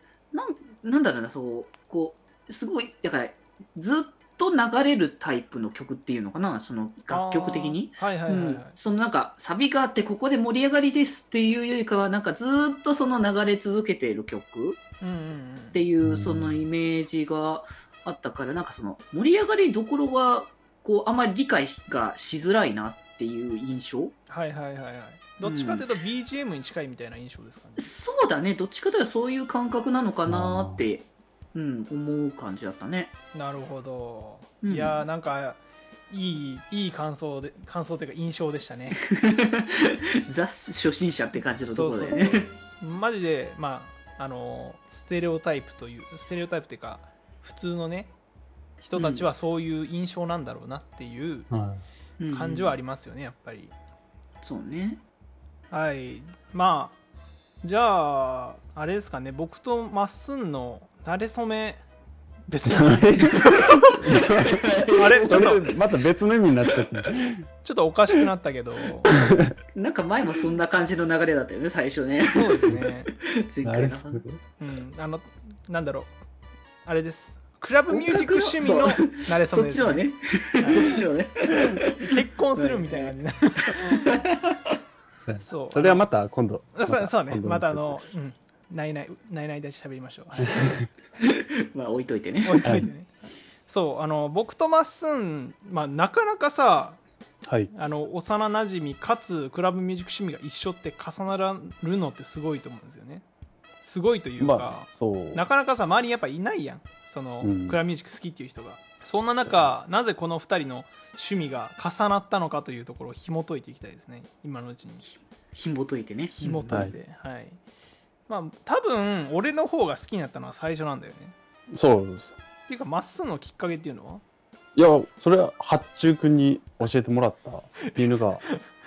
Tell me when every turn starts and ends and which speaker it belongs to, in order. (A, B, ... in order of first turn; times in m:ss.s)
0:00.3-0:14.8 A
0:07.1-0:08.7 B
0:15.0-0:15.8 B
0:15.7-0:24.1 A
0:16.0-0:16.6 C
0:24.3-0:27.9 B
0:25.4-0:25.8 A
0:27.8-0:33.1 A
0:30.3-0:30.8 C
0:33.3-0:39.0 B
0:34.6-0:35.0 A
0:39.0-0:42.5 A
0:41.7-0:48.1 B
0:48.8-0:51.5 B
0:49.0-0:49.3 A
0:51.5-0:51.8 C
0:52.2-0:52.8 A
0:52.3-0:53.7 B
0:54.4-0:55.0 A
0:55.7-0:57.0 B
0:57.6-1:01.8 B
1:02.5-1:04.3 B
1:02.7-1:03.3 C
1:04.0-1:07.5 C
1:04.5-1:05.5 A
1:04.9-1:05.6 B
1:07.6-1:09.1 B
1:09.7-1:12.7 A
1:12.3-1:13.1 B
1:13.3-1:14.2 A
1:13.6-1:14.4 C
1:14.6-1:16.1 B
1:16.8-1:20.0 B
1:17.9-1:23.1 A
1:20.6-1:21.0 B
1:22.0-1:24.1 B
1:23.7-1:24.4 A
1:25.3-1:28.1 C
1:25.4-1:26.0 B
1:26.7-1:30.7 B
1:30.6-1:30.8 C
1:31.2-1:32.8 A
1:32.4-1:37.0 B
1:37.4-1:37.7 C
1:37.7-1:43.2 B
1:43.8-1:55.0 B
1:44.4-1:45.4 C
1:47.4-1:47.8 C
1:49.4-1:49.7 C
1:55.0-1:56.8 A
1:56.3-1:57.6 B
1:56.7-1:57.0 C
1:58.3-2:01.3 B
2:01.7-2:02.4 C
2:02.7-2:04.2 B
2:04.7-2:08.4 C